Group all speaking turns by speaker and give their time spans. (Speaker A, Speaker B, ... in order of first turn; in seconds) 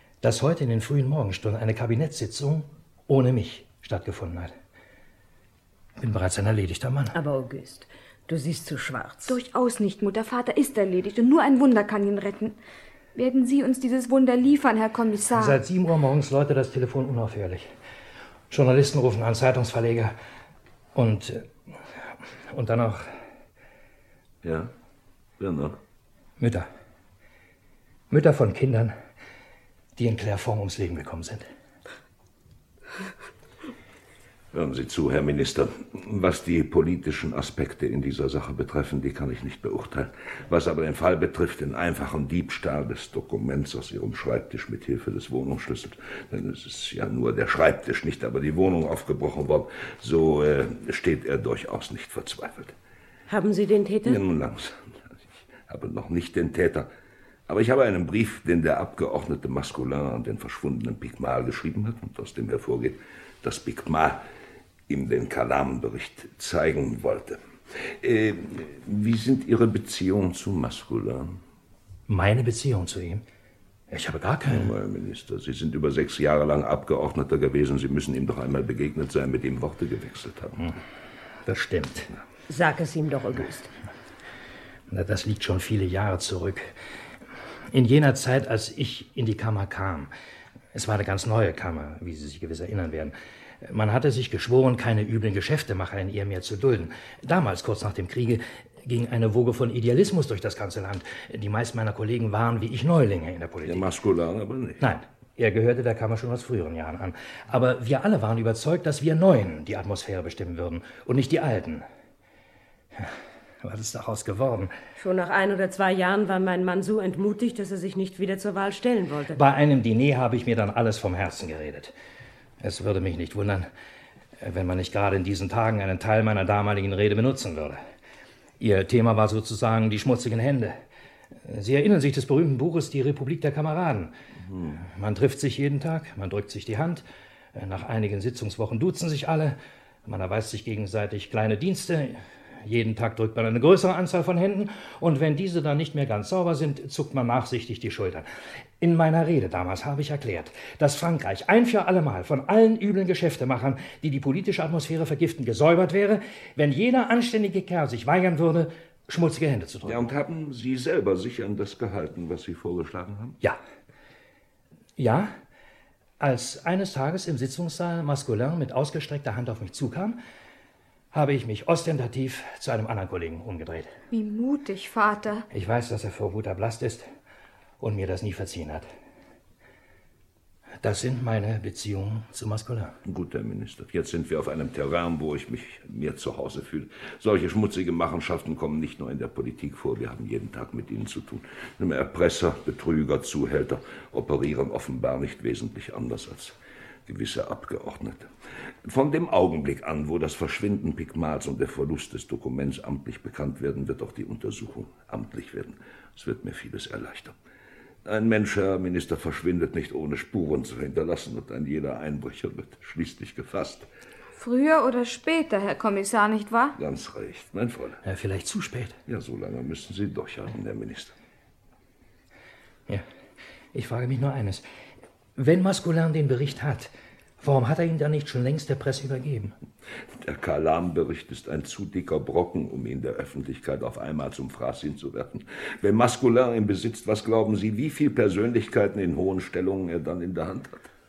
Speaker A: 0.2-4.5, 6.0-7.2, 15.3-17.7, 18.5-20.1, 20.9-23.2, 26.4-26.7, 28.1-28.9, 30.0-31.5, 72.1-73.2, 73.9-74.7, 81.5-82.1, 84.9-86.7, 87.7-90.1, 90.7-103.9, 104.8-111.8, 113.0-114.7, 119.3-121.9, 122.6-123.7, 124.4-127.8, 128.6-130.8, 131.4-134.1, 134.7-148.3, 148.8-160.1, 165.0-165.3, 166.2-170.2, 171.1-173.9, 175.5-177.1, 177.8-178.9, 180.8-183.0, 218.0-219.0, 223.7-224.7, 225.3-229.5
Speaker B: 7.1-9.4, 53.3-54.2, 82.5-83.7, 115.0-119.4
Speaker C: 9.2-12.6, 13.1-15.6, 174.1-175.4, 214.3-216.8
Speaker D: 24.4-24.7, 25.4-25.8, 34.5-52.7, 54.0-56.9, 57.5-64.2, 64.9-71.4, 74.5-80.6, 103.6-104.9, 134.4-134.8, 159.8-163.4, 183.0-198.3, 198.8-207.3, 208.0-213.9, 216.8-218.0, 219.1-221.1, 230.1-240.9